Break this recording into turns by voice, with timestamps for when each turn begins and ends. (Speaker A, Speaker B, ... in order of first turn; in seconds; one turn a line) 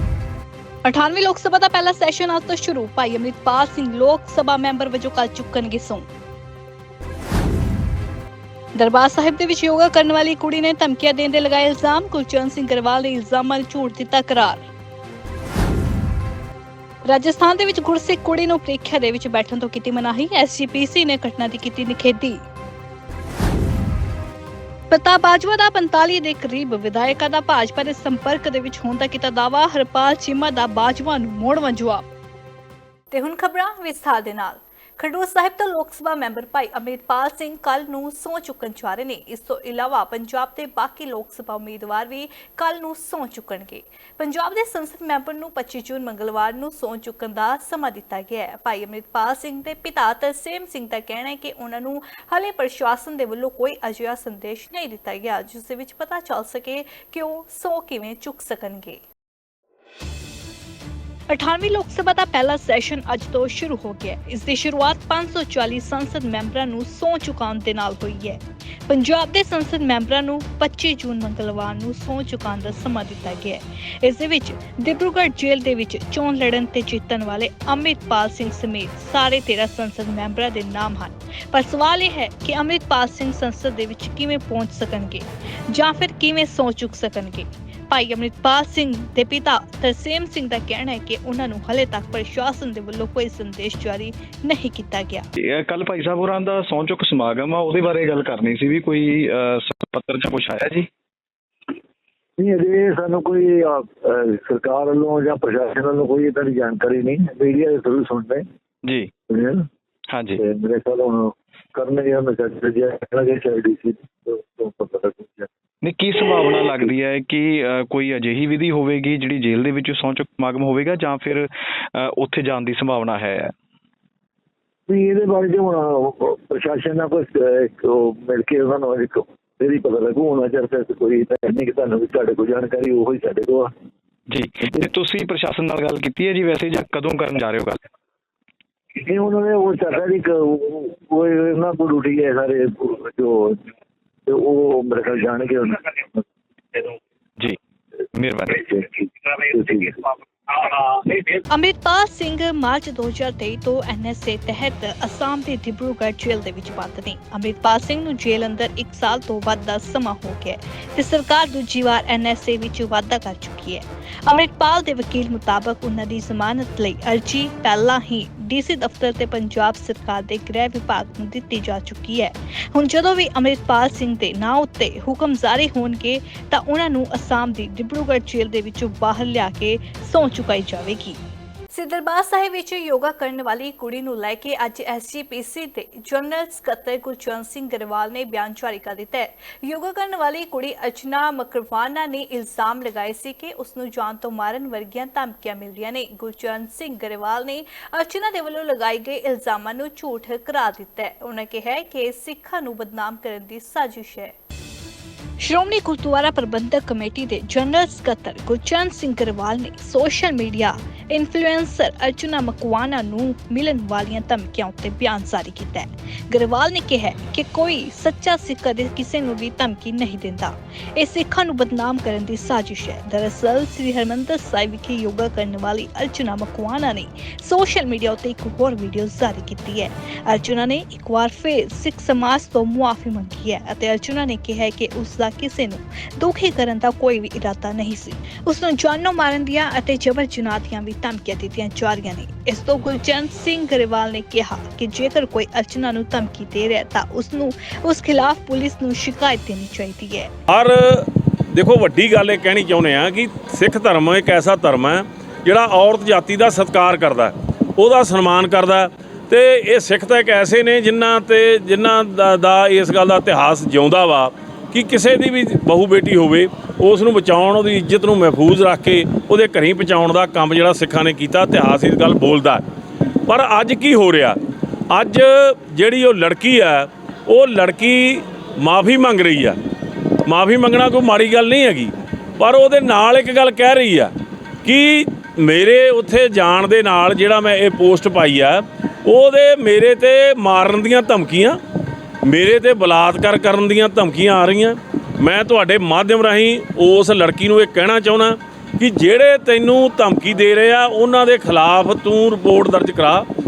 Speaker A: 0.8-6.1
Speaker A: 8.8-14.7
Speaker A: 17.1-22.4
Speaker A: 24.9-32.1
Speaker A: 33.1-59.0
Speaker A: 61.3-95.3
Speaker B: 95.4-100.9
Speaker C: 102.4-108.5
Speaker B: 108.8-109.1
Speaker C: 109.3-109.7
Speaker B: 110.1-110.4
Speaker C: 110.4-115.5
Speaker B: 115.8-123.5
Speaker C: 124.9-133.7
Speaker B: 134.3-137.8
Speaker C: 138.9-143.7
Speaker C: 144.3-146.2
Speaker B: 148.1-148.6
Speaker C: 148.6-151.3
Speaker A: 151.5-181.2
Speaker A: 181.7-204.3
Speaker A: 205.4-250.3
Speaker D: 250.5-272.6
Speaker D: 273.3-274.4
Speaker D: 274.9-279.6
Speaker D: 280.3-284.1
Speaker D: 284.6-291.6
Speaker D: 292.2-303.3